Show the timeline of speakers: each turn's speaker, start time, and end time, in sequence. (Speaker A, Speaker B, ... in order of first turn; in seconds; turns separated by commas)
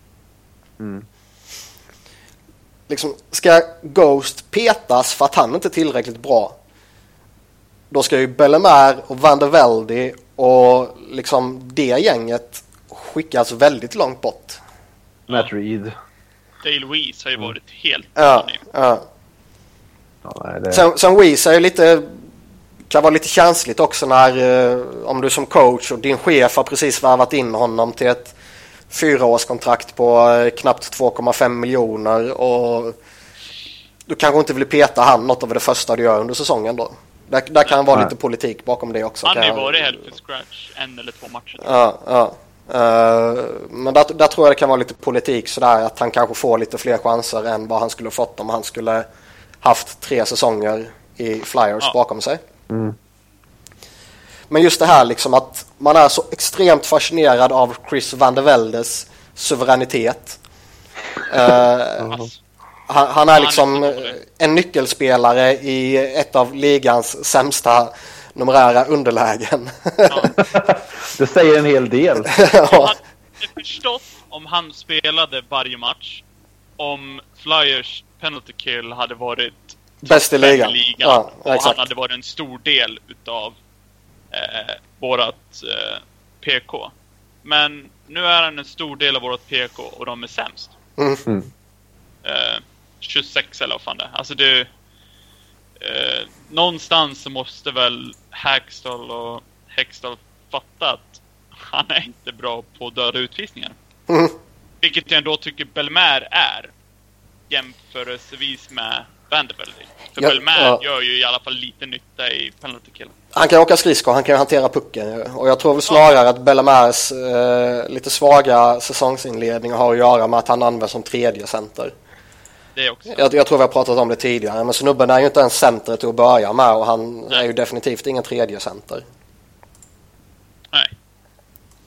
Speaker A: 0.8-1.0, Speaker B: 2.9-6.6, Speaker B: 7.9-14.6, Speaker A: 15.3-15.9, Speaker C: 16.6-18.6, Speaker B: 18.2-19.1, Speaker A: 20.2-20.8, Speaker B: 20.7-22.1, Speaker B: 22.9-28.3, Speaker B: 28.9-33.0, Speaker B: 34.1-40.0, Speaker C: 39.2-41.8, Speaker B: 41.6-49.0, Speaker B: 49.6-52.4, Speaker A: 52.7-53.0, Speaker B: 54.5-60.4, Speaker B: 61.3-62.3, Speaker B: 62.9-70.3, Speaker C: 63.3-64.1, Speaker C: 70.1-70.3, Speaker A: 70.4-72.3, Speaker B: 72.3-72.9, Speaker C: 72.6-76.2, Speaker C: 76.8-83.5, Speaker B: 80.0-81.8, Speaker C: 84.3-86.9, Speaker C: 87.4-90.7, Speaker B: 91.0-91.2, Speaker C: 92.2-94.7, Speaker C: 95.8-103.8, Speaker C: 104.8-106.7, Speaker C: 107.5-113.1, Speaker B: 110.2-110.8, Speaker B: 113.3-121.9, Speaker C: 122.8-123.3, Speaker B: 123.1-129.0